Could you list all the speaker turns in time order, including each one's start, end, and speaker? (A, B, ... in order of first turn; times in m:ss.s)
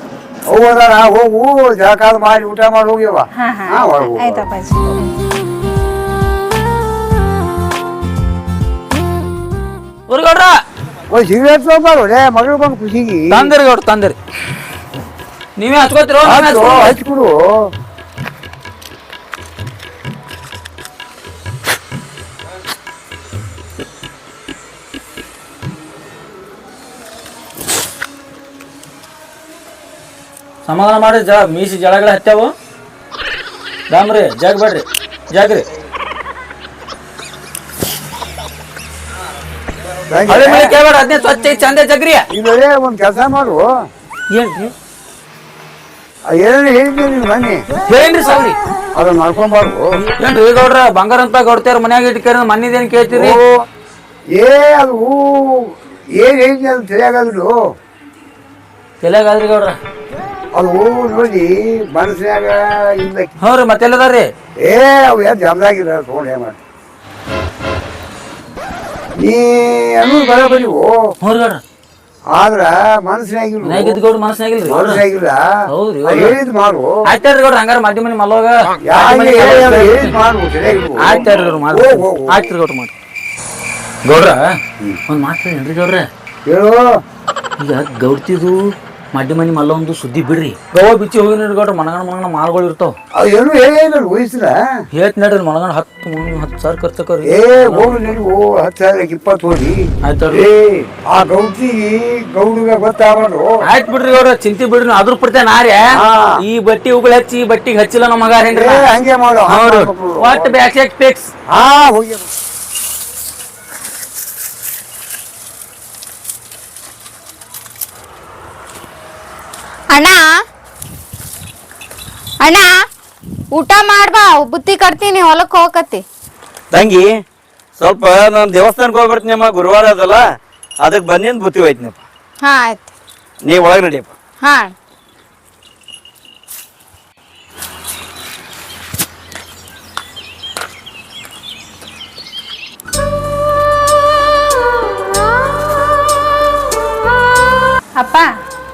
0:00.5-0:04.5 A
0:03.4-0:05.1 B
0:10.1-0:10.6 C
0:11.1-0:13.5 A
0:13.3-0:14.2 C
0:15.6-0:17.0 C
0:16.2-0:17.3 A
0:30.6-0:32.5 C
0:33.9-0:35.6 C
0:40.1-0:40.8 A
0:40.3-0:42.2 C
0:42.3-0:43.7 A
0:44.3-0:44.7 C
0:46.3-0:47.6 A
0:47.8-0:48.6 C
0:49.0-0:49.9 A
0:50.2-0:53.4 C
0:53.1-0:53.4 A
0:54.4-0:57.5 A
0:59.0-0:59.8 C
1:00.5-1:03.3 A
1:03.4-1:04.3 C
1:04.7-1:06.6 A
1:09.2-1:11.0 A
1:11.2-1:11.6 C
1:12.3-1:14.0 A
1:13.6-1:15.0 C
1:14.6-1:15.4 A
1:15.7-1:16.4 C
1:16.0-1:16.9 A
1:17.1-1:20.2 C
1:18.8-1:22.5 A
1:21.0-1:22.9 C
1:24.0-1:24.4 C
1:25.1-1:26.0 C
1:26.5-1:26.8 A
1:27.6-1:28.6 C
1:29.1-1:32.9 C
1:33.1-1:34.6 A
1:34.9-1:38.0 C
1:37.2-1:43.5 A
1:40.0-1:40.4 C
1:43.6-1:45.8 C
1:46.0-1:46.4 A
1:46.4-1:48.9 C
1:48.5-1:50.6 A
1:49.5-1:51.3 C
1:51.5-1:52.3 A
1:59.9-2:00.3 D
2:02.4-2:02.8 D
2:03.5-2:06.0 D
2:06.7-2:07.1 E
2:07.8-2:10.2 E
2:10.8-2:12.0 E
2:12.4-2:12.8 D
2:13.4-2:14.1 E
2:14.4-2:14.7 D
2:28.0-2:28.3 B